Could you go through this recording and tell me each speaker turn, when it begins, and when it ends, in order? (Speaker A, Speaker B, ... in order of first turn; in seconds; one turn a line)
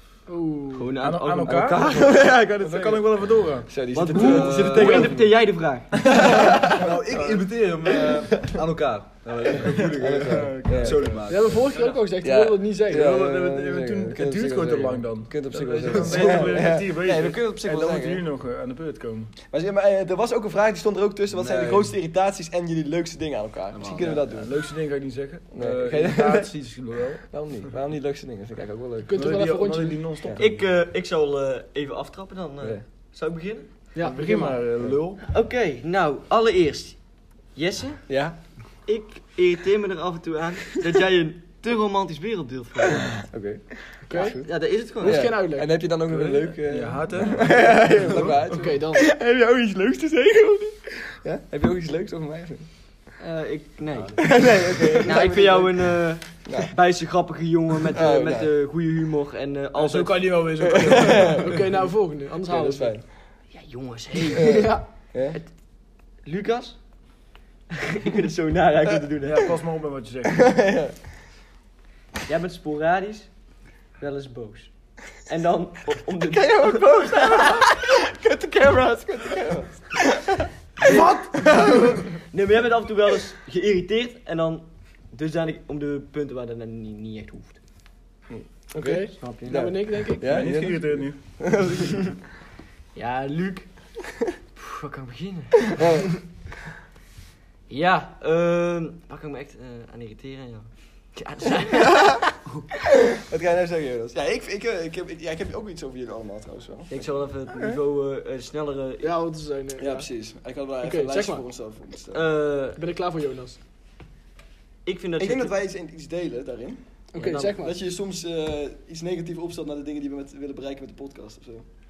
Speaker A: 0.3-0.9
Speaker B: 0.8-2.1
Speaker C: 1.0-5.2
Speaker D: 1.4-3.1
Speaker D: 3.6-5.4
Speaker B: 3.9-6.2
Speaker E: 4.4-5.0
Speaker C: 6.0-6.5
Speaker D: 6.0-7.0
Speaker E: 6.7-11.8
Speaker C: 7.1-7.4
Speaker D: 9.5-11.1
Speaker C: 9.7-11.3
Speaker A: 11.3-13.2
Speaker D: 12.2-18.2
Speaker C: 12.9-19.3
Speaker D: 19.5-24.5
Speaker E: 21.3-21.9
Speaker E: 23.7-24.3
Speaker C: 24.1-27.3
Speaker D: 25.5-26.7
Speaker D: 27.3-29.1
Speaker A: 29.1-30.1
Speaker C: 29.1-30.6
Speaker B: 30.4-33.7
Speaker A: 34.0-34.6
Speaker C: 34.0-35.2
Speaker B: 35.2-37.0
Speaker B: 37.5-38.0
Speaker D: 38.1-38.4
Speaker B: 38.9-43.2
Speaker D: 43.2-52.7
Speaker A: 44.1-44.4
Speaker B: 44.1-45.3
Speaker A: 45.0-45.7
Speaker C: 46.1-48.5
Speaker A: 48.5-49.0
Speaker B: 53.2-60.8
Speaker E: 54.0-54.2
Speaker D: 54.2-56.7
Speaker D: 57.9-58.5
Speaker C: 59.8-61.6
Speaker D: 60.6-61.4
Speaker A: 61.2-63.0
Speaker D: 62.5-63.1
Speaker B: 63.5-64.7
Speaker A: 64.3-64.8
Speaker D: 64.3-65.4
Speaker B: 66.2-66.8
Speaker B: 68.0-69.5
Speaker C: 69.3-70.5
Speaker D: 70.3-71.0
Speaker B: 72.3-73.3
Speaker B: 74.0-77.7
Speaker D: 76.2-82.0
Speaker B: 80.8-81.2
Speaker B: 82.2-87.6
Speaker D: 88.7-92.0
Speaker A: 88.8-90.4
Speaker B: 89.2-89.7
Speaker C: 90.2-91.2
Speaker B: 92.9-93.7
Speaker B: 94.6-95.8
Speaker D: 95.8-96.1
Speaker B: 97.7-102.7
Speaker D: 101.7-102.1
Speaker D: 103.2-107.8
Speaker B: 106.9-109.1
Speaker A: 109.0-110.1
Speaker D: 109.8-112.2
Speaker A: 110.8-111.4
Speaker B: 112.1-112.8
Speaker A: 112.8-113.6
Speaker B: 114.8-115.5
Speaker D: 115.2-121.7
Speaker A: 117.1-117.7
Speaker B: 117.2-117.5